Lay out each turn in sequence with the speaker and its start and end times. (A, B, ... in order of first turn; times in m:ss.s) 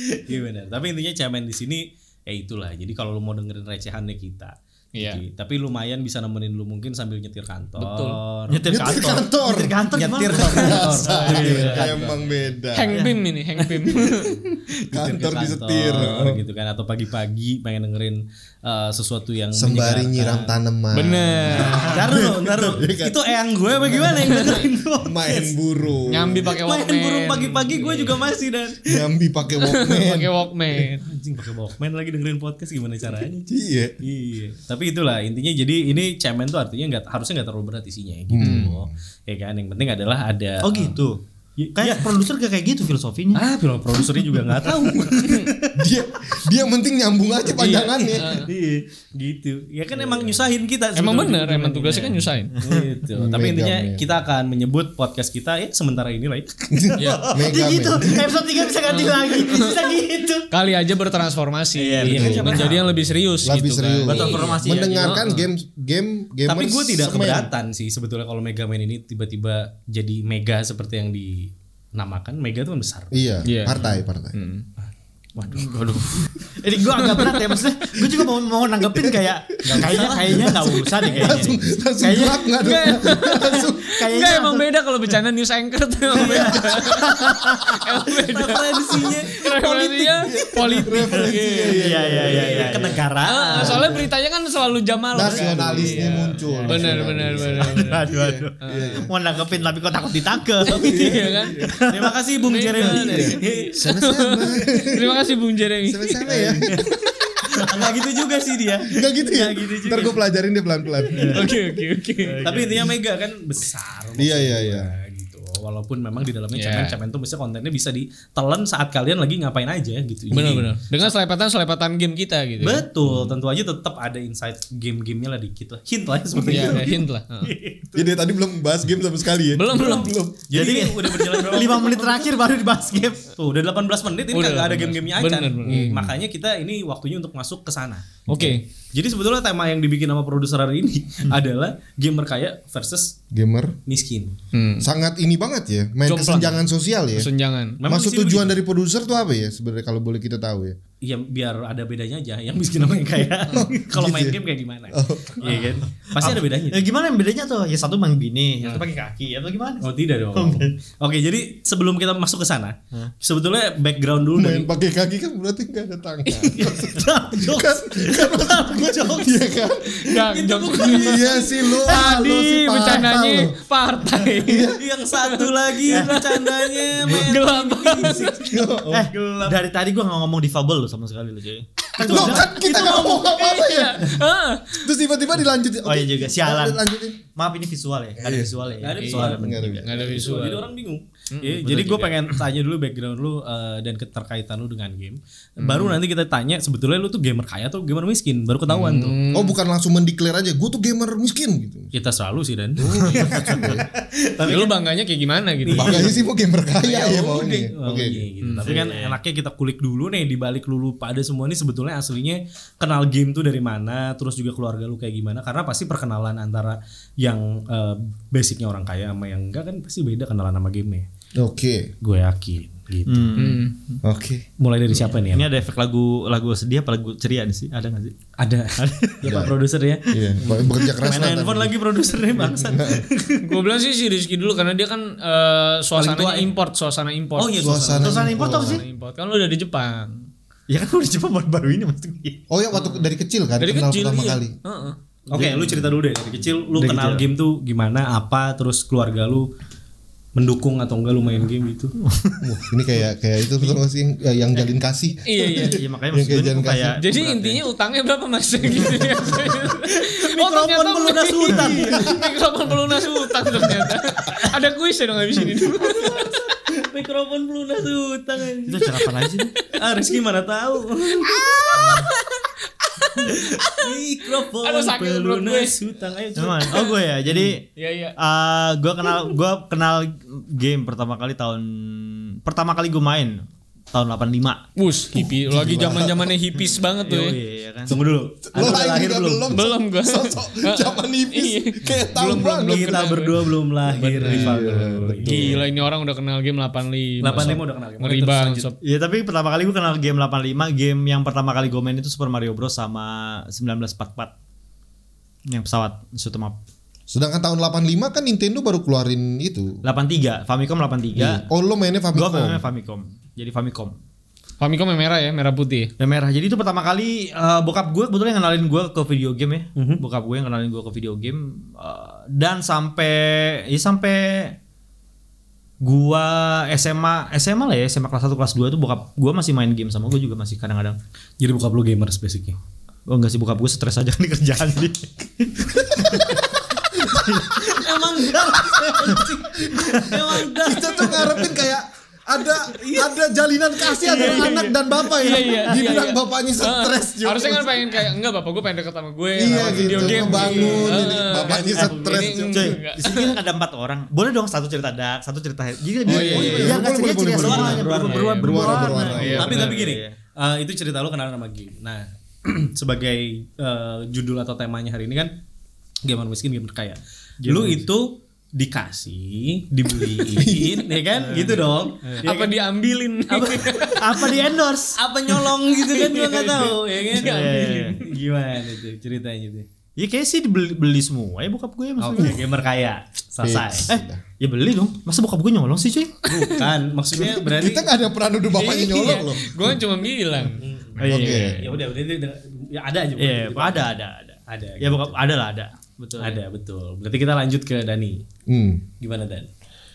0:00.2-0:08.7 A
0:04.9-0:05.2 B
0:07.8-0:08.2 B
0:08.5-0:11.9 C
0:08.7-0:09.8 D
0:09.9-0:12.5 A
0:10.3-0:13.0 D
0:11.3-0:11.6 B
0:12.7-0:14.4 B
0:12.9-0:13.2 C
0:13.6-0:20.5 A
0:14.9-0:16.4 D
0:19.5-0:23.2 D
0:20.9-0:22.0 B
0:21.5-0:25.6 A
0:23.7-0:26.5 D
0:24.2-0:24.6 B
0:26.1-0:28.3 B
0:26.4-0:29.1 A
0:28.8-0:30.3 D
0:29.6-0:31.0 B
0:31.0-0:33.5 A
0:33.5-0:34.0 D
0:34.0-0:41.0 A
0:38.3-0:38.9 D
0:38.4-0:38.7 B
0:40.6-0:41.2 C
0:41.6-0:42.2 A
0:41.7-0:43.4 C
0:43.3-0:45.7 A
0:44.8-0:48.4 D
0:45.2-0:45.5 B
0:47.5-0:48.5 B
0:47.6-0:56.7 A
0:50.9-0:52.5 B
0:52.6-0:52.8 C
0:53.1-0:54.0 D
0:56.7-0:58.5 D
0:57.0-0:57.3 B
0:57.0-1:00.5 C
0:58.8-0:59.8 B
1:00.5-1:05.5 B
1:01.7-1:02.8 C
1:02.0-1:03.4 A
1:02.1-1:02.6 D
1:03.4-1:07.5 D
1:04.0-1:05.2 C
1:06.4-1:13.2 A
1:13.1-1:14.4 D
1:13.5-1:14.6 B
1:15.4-1:16.0 A
1:15.5-1:24.7 C
1:17.2-1:17.4 B
1:18.9-1:24.0 D
1:19.7-1:21.5 A
1:22.6-1:32.1 B
1:26.1-1:26.7 A
1:26.2-1:27.8 C
1:28.1-1:30.8 A
1:30.3-1:33.0 D
1:31.6-1:33.8 C
1:32.3-1:33.8 A
1:33.2-1:38.1 B
1:33.5-1:34.1 D
1:35.1-1:39.1 D
1:35.3-1:36.1 A
1:36.5-1:36.8 C
1:36.6-1:37.2 A
1:37.6-1:42.1 C
1:38.6-1:39.1 B
1:40.7-1:41.7 B
1:40.7-1:41.8 D
1:41.8-1:43.8 A
1:42.4-1:46.3 B
1:42.9-1:45.2 D
1:45.8-1:46.9 D
1:46.2-1:50.2 A
1:48.8-1:51.6 D
1:51.1-1:51.4 A
1:51.3-1:52.6 B
1:52.2-1:52.9 C
1:52.4-2:01.1 A
1:54.2-1:54.9 D
1:56.5-1:57.0 B
2:00.3-2:02.8 B
2:00.3-2:00.6 D
2:02.6-2:08.0 A
2:06.4-2:06.8 D
2:06.4-2:07.5 B
2:07.9-2:10.3 D
2:09.5-2:10.3 B
2:09.7-2:12.3 A
2:10.5-2:13.3 C
2:13.4-2:18.2 A
2:14.3-2:15.9 B
2:15.6-2:16.1 D
2:18.3-2:18.6 B
2:18.3-2:18.6 D
2:18.9-2:23.2 A
2:23.3-2:23.8 D
2:23.8-2:24.3 A
2:24.5-2:24.9 B
2:24.8-2:27.3 D
2:26.0-2:26.6 B
2:27.1-2:27.8 B
2:27.8-2:28.6 A
2:27.8-2:30.8 D
2:31.0-2:36.8 A
2:33.5-2:34.4 D
2:34.9-2:35.7 D
2:36.2-2:40.7 C
2:39.8-2:44.7 A
2:44.4-2:50.2 D
2:46.3-2:46.6 B
2:46.6-2:49.3 C
2:50.0-2:58.6 B
2:50.1-2:51.5 A
2:50.8-2:53.6 D
2:51.9-2:52.2 C
2:54.4-2:54.8 D
2:54.7-2:58.6 A
2:55.9-2:56.1 C
2:58.4-2:59.1 D
2:58.9-3:03.2 C
2:59.1-2:59.5 A
3:02.0-3:04.2 D
3:02.1-3:04.9 B
3:02.1-3:03.2 A
3:04.8-3:07.2 D
3:05.8-3:06.8 C
3:07.3-3:09.8 C
3:08.2-3:08.6 D
3:08.8-3:19.2 A
3:09.0-3:10.7 B
3:09.2-3:10.3 D
3:11.3-3:12.3 B
3:15.6-3:16.0 B
3:18.7-3:19.6 B
3:19.3-3:21.9 D
3:21.9-3:23.8 A
3:22.8-3:23.8 D
3:23.1-3:23.8 C
3:24.4-3:24.7 A
3:24.4-3:26.1 B
3:25.6-3:26.2 A
3:25.7-3:28.3 D
3:26.8-3:41.0 A
3:28.4-3:28.8 B
3:28.6-3:29.2 C
3:41.4-3:41.9 D
3:42.0-3:43.5 A
3:43.0-3:44.0 C
3:43.4-3:43.7 B
3:44.0-3:44.4 D
3:44.6-3:45.4 A
3:45.2-3:48.1 C
3:48.4-3:53.6 A
3:48.8-3:49.5 C
3:49.2-3:49.5 D
3:50.1-3:51.7 D
3:52.3-3:53.0 D
3:53.4-4:00.2 B
3:55.9-3:56.5 A
3:57.4-3:58.4 A
3:57.6-3:58.8 D
3:58.0-3:58.8 C
4:00.7-4:02.4 C
4:02.5-4:04.6 D
4:03.6-4:05.0 B
4:05.3-4:09.5 A
4:05.3-4:05.8 C
4:06.7-4:07.2 C
4:10.4-4:11.9 A
4:12.0-4:12.4 C
4:12.4-4:17.0 D
4:15.2-4:15.8 B
4:15.5-4:17.6 C
4:17.0-4:26.4 B
4:19.8-4:22.2 A
4:25.7-4:29.0 A
4:28.6-4:29.5 C
4:29.7-4:32.0 A
4:31.2-4:34.0 B
4:31.8-4:32.1 C
4:33.2-4:36.9 A
4:34.6-4:35.7 B
4:36.4-4:37.6 C
4:37.3-4:38.1 B
4:38.2-4:43.4 C
4:43.9-4:44.6 C
4:44.8-4:47.4 B
4:45.1-4:46.4 D
4:46.6-4:47.9 C
4:47.9-4:49.5 A
4:48.5-4:53.0 D
4:49.5-4:58.8 B
4:52.6-4:55.6 A
4:54.2-4:55.6 D
4:57.2-4:58.7 A
4:58.8-5:04.3 C
5:05.5-5:06.6 C
5:07.1-5:09.8 D
5:09.8-5:11.4 C
5:11.1-5:12.6 D
5:12.1-5:14.0 C
5:14.6-5:15.9 B
5:16.0-5:24.6 C
5:19.8-5:20.0 A
5:25.8-5:31.0 C
5:31.4-5:32.6 A
5:33.1-5:40.5 C
5:37.6-5:41.6 A
5:40.6-5:48.0 D
5:42.7-5:43.1 A
5:43.9-5:53.4 B
5:44.2-5:44.5 C
5:45.3-5:45.7 C
5:49.4-5:52.8 D
5:49.5-5:51.2 A
5:51.7-6:00.2 C
5:56.0-5:56.8 B
5:56.0-5:59.7 D
5:56.3-6:05.3 A
5:57.6-5:59.8 B
6:06.0-6:12.6 A
6:07.4-6:07.8 C
6:10.3-6:10.9 D
6:11.2-6:12.3 C
6:12.2-6:14.4 B
6:13.3-6:13.8 A
6:13.9-6:15.0 C
6:15.0-6:19.6 A
6:15.3-6:18.1 B
6:17.1-6:18.0 C
6:20.0-6:22.4 C
6:22.0-6:23.9 A
6:23.4-6:24.2 D
6:23.9-6:26.3 C
6:26.3-6:27.9 A
6:26.3-6:26.6 B
6:27.2-6:29.8 D
6:28.5-6:31.6 B
6:30.6-6:33.9 A
6:31.0-6:31.6 C
6:31.0-6:31.7 D
6:33.2-6:36.4 C
6:34.5-6:35.2 A
6:36.2-6:38.2 A
6:38.5-6:38.8 D
6:39.0-6:39.5 A